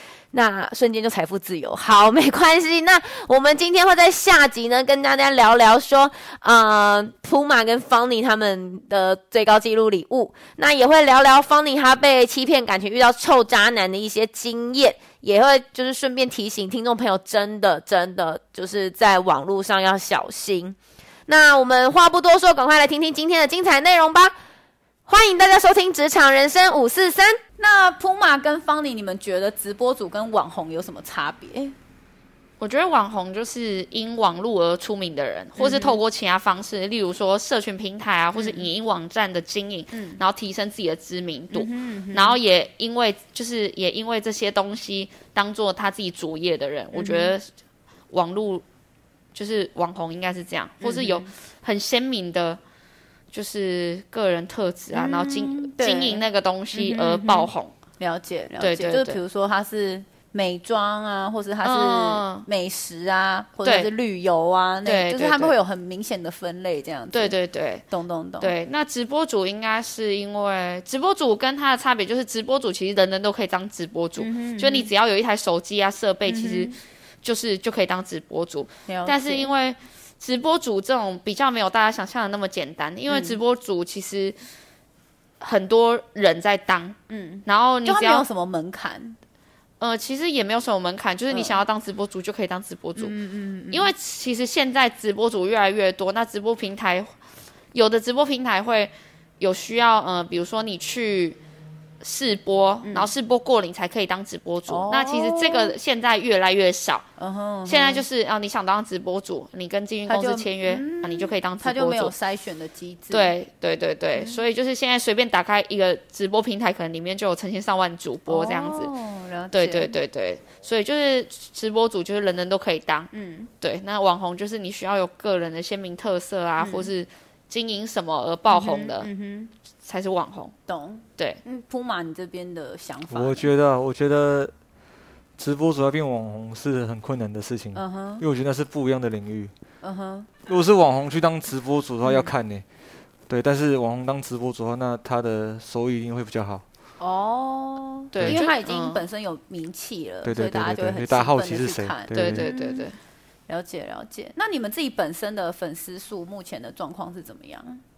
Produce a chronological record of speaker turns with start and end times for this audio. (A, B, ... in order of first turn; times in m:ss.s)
0:00.3-0:24.4 A
0:25.1-0:27.4 A
0:27.6-0:31.8 B
0:32.6-0:47.5 C
0:35.6-0:36.0 B
0:38.3-0:38.7 B
0:39.9-0:40.2 B
0:41.5-0:42.4 B
0:46.9-0:47.3 B
0:48.1-0:48.6 C
0:49.4-0:52.6 C
0:50.8-0:51.3 B
0:53.3-0:57.7 C
0:54.9-1:07.3 B
0:58.6-0:59.2 C
1:01.6-1:02.5 C
1:03.6-1:03.9 C
1:04.8-1:05.6 C
1:07.1-1:07.8 C
1:07.9-1:08.5 B
1:08.4-1:24.4 C
1:14.2-1:14.9 B
1:16.3-1:16.8 B
1:18.9-1:19.5 B
1:23.1-1:23.4 B
1:25.4-1:28.2 C
1:27.1-1:29.2 B
1:29.8-1:33.1 C
1:31.3-1:31.6 B
1:33.0-1:33.9 B
1:33.7-1:37.1 C
1:37.7-1:41.4 C
1:42.0-1:47.0 C
1:42.8-1:43.1 B
1:44.7-1:45.7 B
1:47.2-1:48.0 B
1:47.7-1:52.1 C
1:50.1-1:53.3 B
1:53.1-1:58.9 C
1:54.2-1:54.4 B
1:58.3-1:59.9 B
1:59.5-2:03.1 C
2:03.1-2:03.5 B
2:03.6-2:09.1 C
2:06.6-2:06.9 B
2:08.5-2:09.5 B
2:09.9-2:10.5 C
2:10.7-2:13.5 B
2:13.1-2:14.5 D
2:15.4-2:19.5 D
2:17.8-2:18.2 B
2:19.8-2:20.3 B
2:20.5-2:22.6 D
2:22.0-2:22.3 B
2:23.3-2:26.6 D
2:27.0-2:32.9 B
2:28.1-2:29.0 C
2:30.2-2:32.5 D
2:32.1-2:33.0 C
2:33.5-2:37.8 B